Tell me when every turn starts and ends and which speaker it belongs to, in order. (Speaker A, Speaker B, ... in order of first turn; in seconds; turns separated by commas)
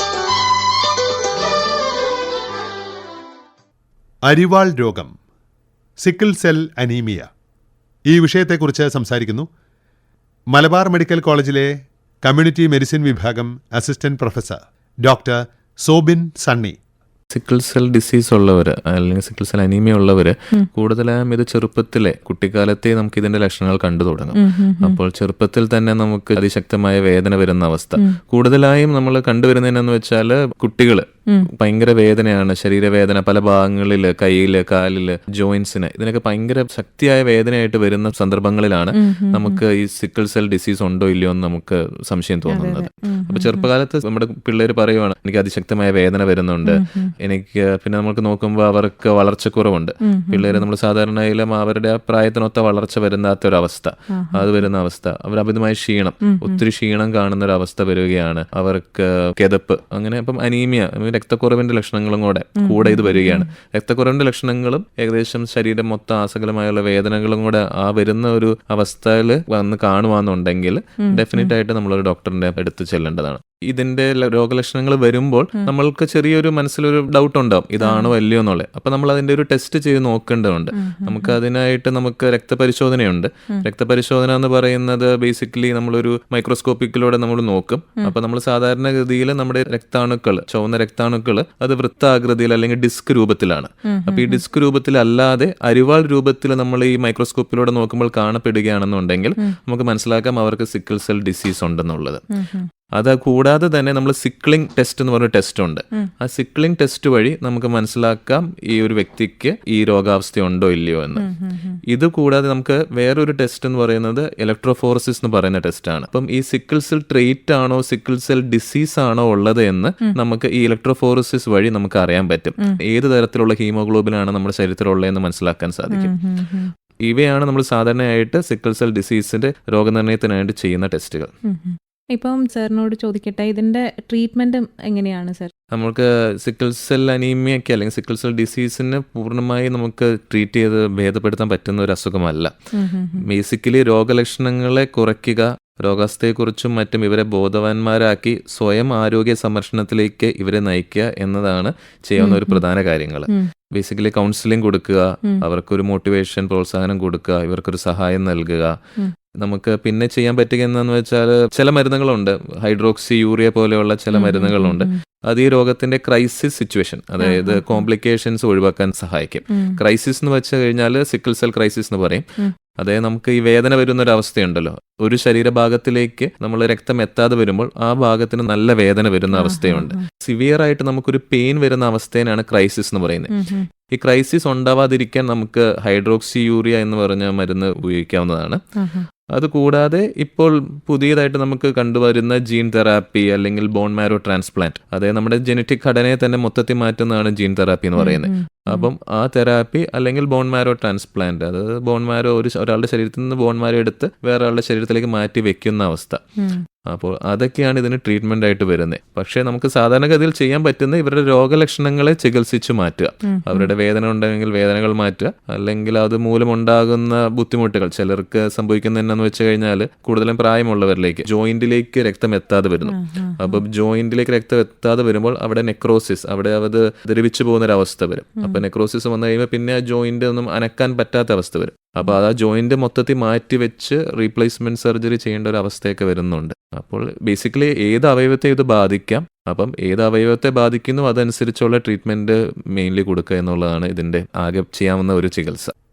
Speaker A: 4.2-5.1, Speaker A: 6.0-7.3, Speaker A: 8.1-9.5, Speaker A: 10.5-16.8, Speaker B: 17.3-102.2, Speaker C: 24.3-25.0, Speaker C: 38.9-39.6, Speaker C: 42.5-43.7, Speaker C: 46.6-47.1, Speaker C: 50.0-50.6, Speaker C: 54.1-54.6, Speaker C: 56.2-56.6, Speaker C: 62.6-63.5, Speaker C: 71.0-71.5, Speaker C: 77.8-78.1, Speaker C: 80.7-81.4, Speaker C: 93.9-94.4, Speaker C: 102.3-102.7, Speaker B: 103.0-111.3, Speaker C: 111.1-111.8, Speaker B: 111.9-126.1, Speaker C: 125.9-126.7, Speaker B: 127.0-131.3, Speaker C: 131.4-135.5, Speaker B: 135.7-142.5, Speaker C: 142.7-143.2, Speaker B: 143.2-158.7, Speaker C: 152.2-152.6, Speaker B: 159.4-172.2, Speaker C: 164.1-164.9, Speaker C: 167.2-167.8, Speaker C: 169.5-169.8, Speaker B: 172.8-183.3, Speaker C: 179.3-180.0, Speaker C: 183.3-183.7, Speaker B: 183.9-188.6, Speaker C: 188.8-189.1, Speaker B: 189.3-206.2, Speaker C: 198.0-198.9, Speaker B: 206.9-245.7, Speaker C: 213.2-213.7, Speaker C: 222.9-223.6